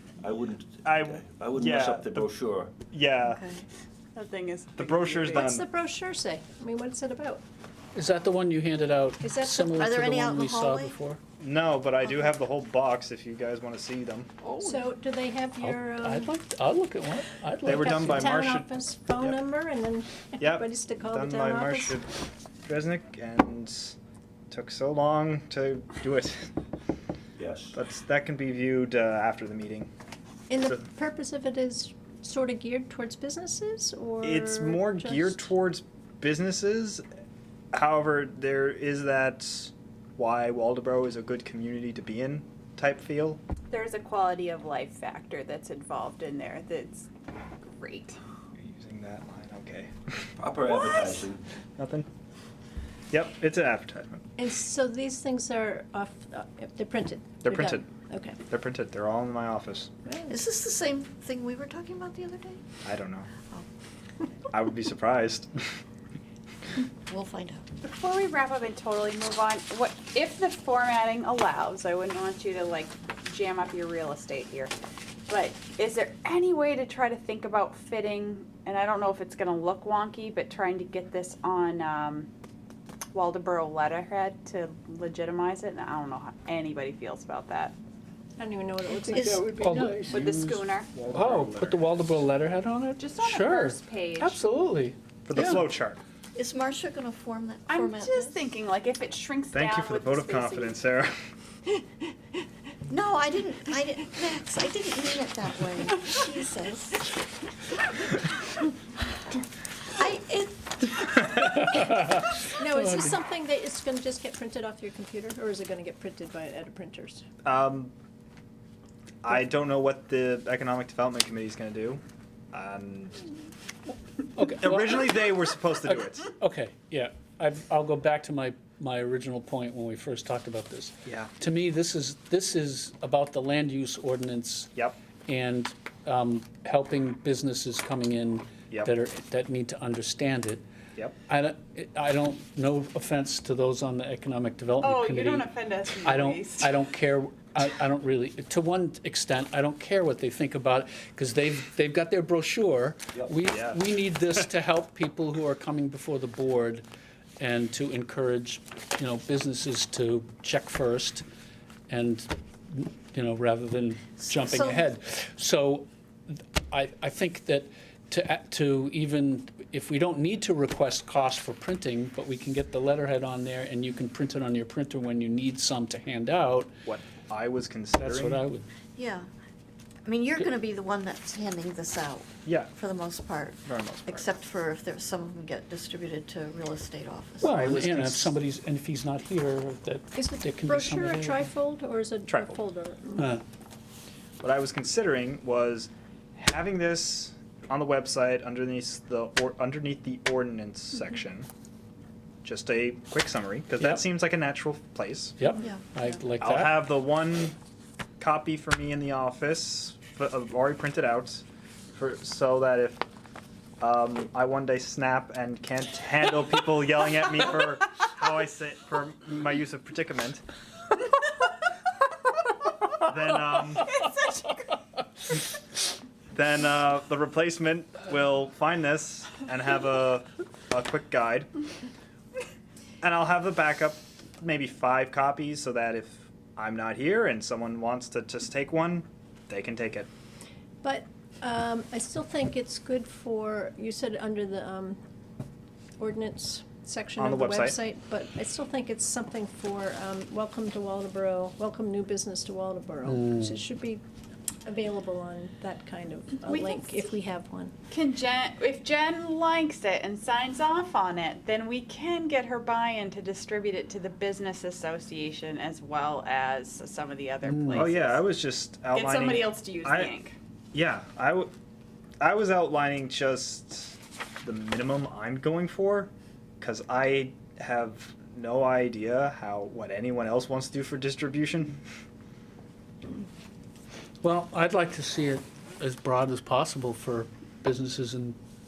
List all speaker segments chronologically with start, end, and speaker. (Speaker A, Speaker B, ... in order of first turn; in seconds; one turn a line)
Speaker A: 0.2-2.7
Speaker B: 0.8-2.3
Speaker B: 2.9-3.4
Speaker C: 3.2-3.7
Speaker D: 4.2-5.6
Speaker B: 4.8-5.7
Speaker E: 5.3-7.4
Speaker F: 8.0-11.2
Speaker E: 9.2-9.9
Speaker C: 9.5-11.0
Speaker B: 11.4-14.3
Speaker D: 14.4-14.8
Speaker E: 14.6-16.4
Speaker F: 15.6-18.3
Speaker B: 17.6-19.4
Speaker E: 17.8-22.0
Speaker B: 20.4-22.1
Speaker B: 22.6-24.0
Speaker B: 24.5-26.5
Speaker A: 27.4-27.8
Speaker B: 27.7-29.9
Speaker E: 30.5-35.5
Speaker B: 34.2-37.0
Speaker B: 37.7-43.4
Speaker D: 43.7-47.1
Speaker D: 47.6-48.2
Speaker B: 48.6-50.3
Speaker A: 50.4-51.4
Speaker D: 50.8-51.3
Speaker B: 51.8-52.1
Speaker B: 53.1-54.2
Speaker E: 54.4-58.4
Speaker B: 57.4-57.9
Speaker B: 58.5-59.9
Speaker E: 60.0-60.4
Speaker C: 60.3-62.7
Speaker B: 62.8-63.3
Speaker B: 64.5-65.5
Speaker C: 67.1-67.7
Speaker D: 67.8-74.7
Speaker D: 75.3-82.3
Speaker D: 83.1-87.8
Speaker E: 88.4-90.1
Speaker F: 89.1-90.5
Speaker C: 89.2-89.5
Speaker D: 90.1-90.9
Speaker A: 91.1-91.5
Speaker F: 91.1-95.7
Speaker B: 91.1-91.8
Speaker D: 93.0-94.4
Speaker B: 95.3-96.0
Speaker C: 96.4-98.4
Speaker D: 97.7-100.8
Speaker B: 99.5-101.1
Speaker C: 102.9-107.1
Speaker C: 110.0-110.9
Speaker F: 111.4-113.1
Speaker E: 112.4-117.2
Speaker B: 117.4-117.9
Speaker B: 119.2-122.0
Speaker B: 122.5-123.2
Speaker F: 124.4-125.1
Speaker B: 124.6-126.3
Speaker F: 125.9-134.7
Speaker F: 135.3-140.6
Speaker F: 141.3-145.5
Speaker D: 144.8-146.8
Speaker F: 146.0-156.8
Speaker B: 153.5-153.8
Speaker F: 157.4-161.2
Speaker F: 161.9-176.7
Speaker C: 164.3-164.8
Speaker B: 176.9-178.4
Speaker F: 178.0-178.7
Speaker C: 179.0-179.3
Speaker C: 180.1-187.6
Speaker B: 182.4-182.7
Speaker B: 183.7-184.3
Speaker F: 187.4-191.5
Speaker B: 187.5-188.3
Speaker E: 190.2-193.3
Speaker B: 192.3-192.6
Speaker B: 194.4-201.5
Speaker B: 202.4-205.4
Speaker F: 205.4-206.9
Speaker C: 205.6-206.0
Speaker B: 206.4-207.6
Speaker B: 208.2-213.0
Speaker B: 213.8-220.4
Speaker B: 223.1-223.9
Speaker D: 224.1-224.4
Speaker B: 226.3-231.5
Speaker B: 233.0-240.1
Speaker E: 240.8-245.0
Speaker E: 246.0-254.0
Speaker B: 247.2-247.8
Speaker F: 253.1-253.6
Speaker E: 254.7-257.7
Speaker D: 256.4-257.1
Speaker D: 257.9-268.3
Speaker F: 267.4-267.9
Speaker B: 267.7-270.1
Speaker D: 268.9-270.4
Speaker B: 270.7-271.5
Speaker B: 272.2-281.8
Speaker F: 284.2-288.4